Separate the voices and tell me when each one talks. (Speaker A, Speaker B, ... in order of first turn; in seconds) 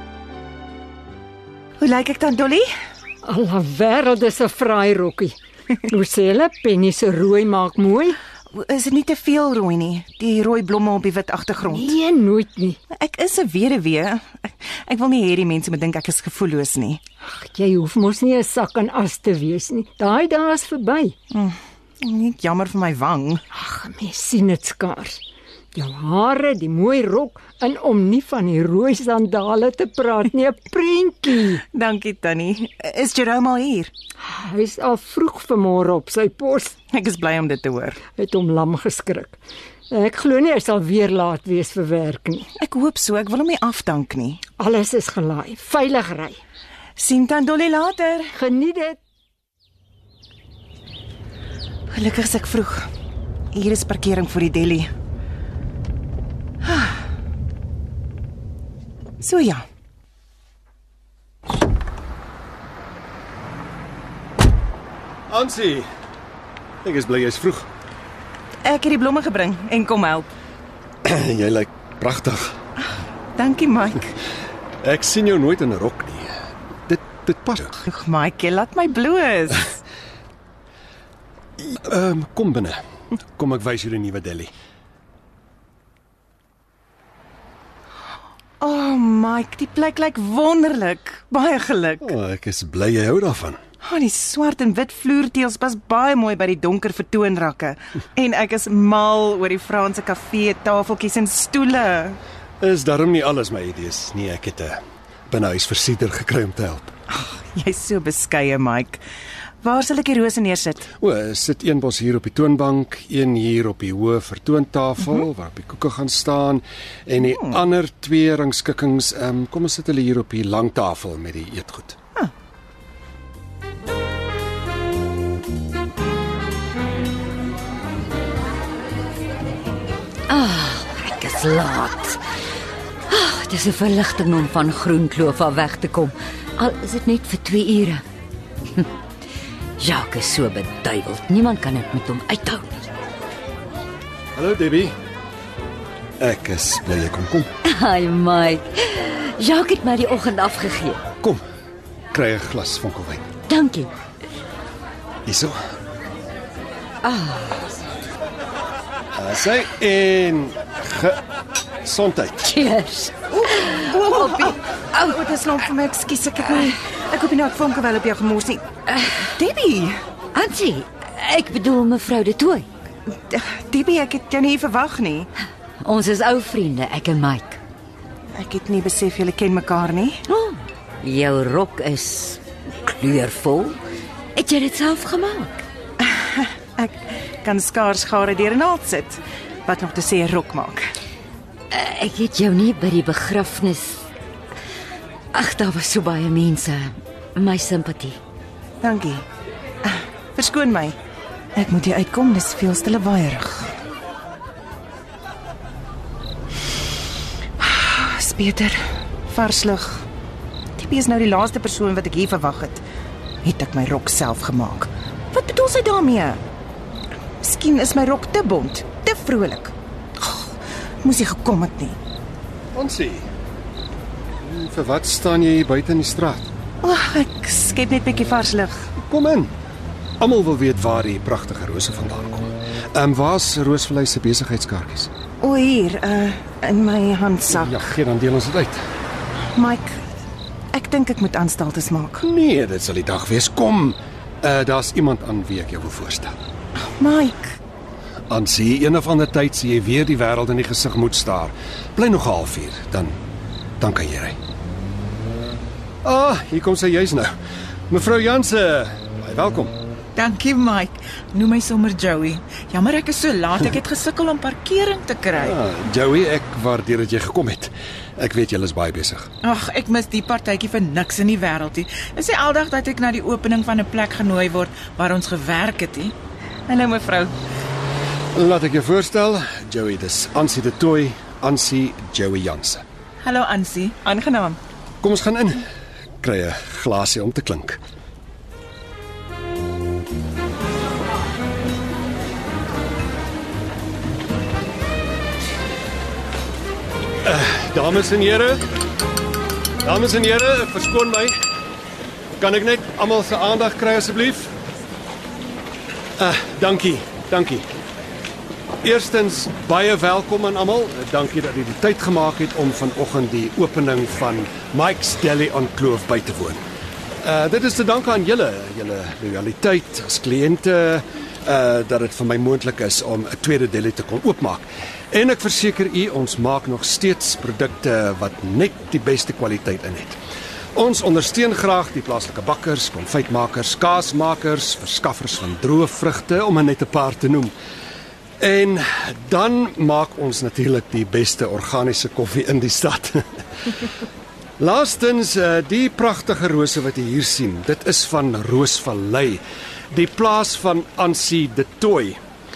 Speaker A: 1.8-2.7, 8.5-12.0, 12.9-17.0, 21.3-23.4, 31.7-33.9, 36.9-38.0, 42.6-44.4, 47.0-48.3, 51.9-52.9, 53.5-54.9, 56.6-57.0, 59.2-59.6, 68.6-70.3, 73.4-74.2, 77.9-79.7, 88.6-92.1, 93.8-102.2, 107.1-109.0, 109.6-110.9, 163.3-168.6, 169.3-169.9, 173.1-175.3, 178.3-180.2, 186.0-190.9, 198.8-199.2, 199.8-200.9, 201.6-203.7, 207.6-210.0, 210.8-212.8, 213.4-216.4, 217.4-222.0, 226.8-228.9, 235.4-237.8, 239.5-239.9, 240.7-242.2, 246.8-247.6, 276.7-277.3, 284.0-284.6
Speaker B: 3.2-8.2, 11.6-12.8, 17.3-21.1, 23.5-25.2, 25.8-31.6, 34.2-36.8, 38.2-39.4, 39.9-42.5, 44.6-46.4, 48.3-49.0
Speaker C: 65.3-65.9, 66.8-67.7, 71.0-72.5, 74.8-76.3, 76.9-77.8, 81.6-82.8, 83.3-84.5, 92.0-93.6, 102.6-106.9, 111.0-122.0, 144.3-144.9, 146.2-147.5, 152.1-153.2, 155.2-155.6, 159.1-161.2, 161.8-162.5, 222.7-223.2, 224.4-226.5, 229.0-229.5, 230.2-235.1, 237.6-238.8, 242.2-246.3, 248.3-253.2, 253.8-254.4, 256.0-257.3, 257.9-259.8, 265.4-269.3, 278.3-282.8, 285.0-285.7, 286.2-287.8, 297.2-298.6, 299.8-301.4, 302.4-304.5, 306.2-307.7, 308.8-316.6, 317.2-330.2, 330.8-337.6, 338.4-343.7, 344.6-352.2
Speaker D: 130.3-132.2, 133.1-138.0, 139.8-142.8, 147.6-151.0, 153.5-153.9, 157.0-157.6, 162.4-165.0, 170.3-172.7, 175.8-177.6, 180.3-183.8, 184.3-185.6, 191.7-194.0, 195.3-198.2
Speaker E: 260.2-265.6, 269.4-276.1, 283.2-284.0